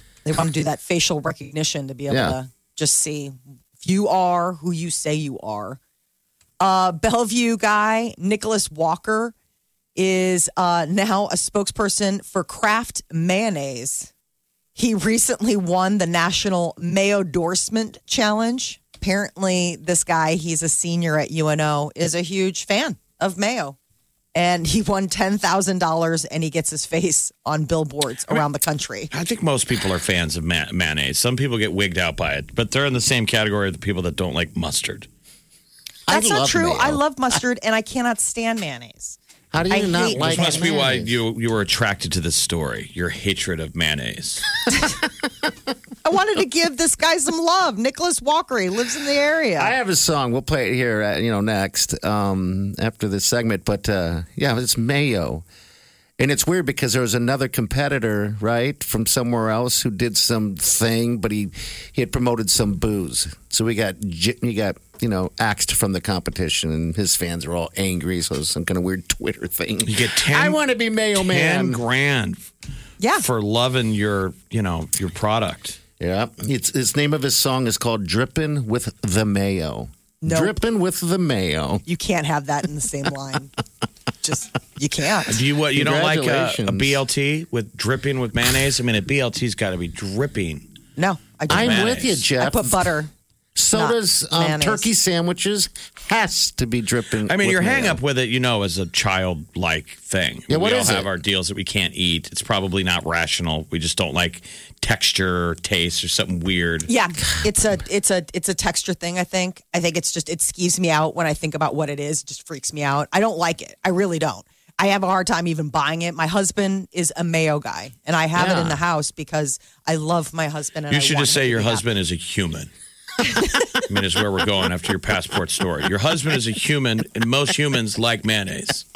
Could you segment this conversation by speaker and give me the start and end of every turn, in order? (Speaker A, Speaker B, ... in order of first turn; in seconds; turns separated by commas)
Speaker A: 0.2-5.8, Speaker B: 2.1-2.4, Speaker A: 6.6-9.3, Speaker A: 9.9-14.1, Speaker A: 14.8-23.8, Speaker A: 24.3-29.1, Speaker C: 29.1-35.1, Speaker B: 36.1-37.0, Speaker A: 36.1-39.2, Speaker B: 39.5-41.1, Speaker A: 39.7-40.6, Speaker C: 40.2-44.4, Speaker A: 46.0-49.7, Speaker B: 49.6-55.4, Speaker B: 56.2-71.8, Speaker C: 69.8-70.6, Speaker C: 71.2-72.5, Speaker A: 73.0-73.2, Speaker C: 73.2-75.8, Speaker B: 76.0-81.8, Speaker A: 80.2-80.6, Speaker A: 81.9-83.5, Speaker A: 84.2-85.4, Speaker C: 85.3-90.7, Speaker B: 85.7-87.0, Speaker A: 91.0-93.1, Speaker B: 91.5-92.9, Speaker C: 91.5-92.2, Speaker B: 93.5-98.0, Speaker A: 93.7-94.9, Speaker C: 97.3-106.9, Speaker B: 100.5-101.1, Speaker A: 106.9-121.8, Speaker B: 118.3-118.8, Speaker C: 120.9-122.7, Speaker C: 123.8-128.8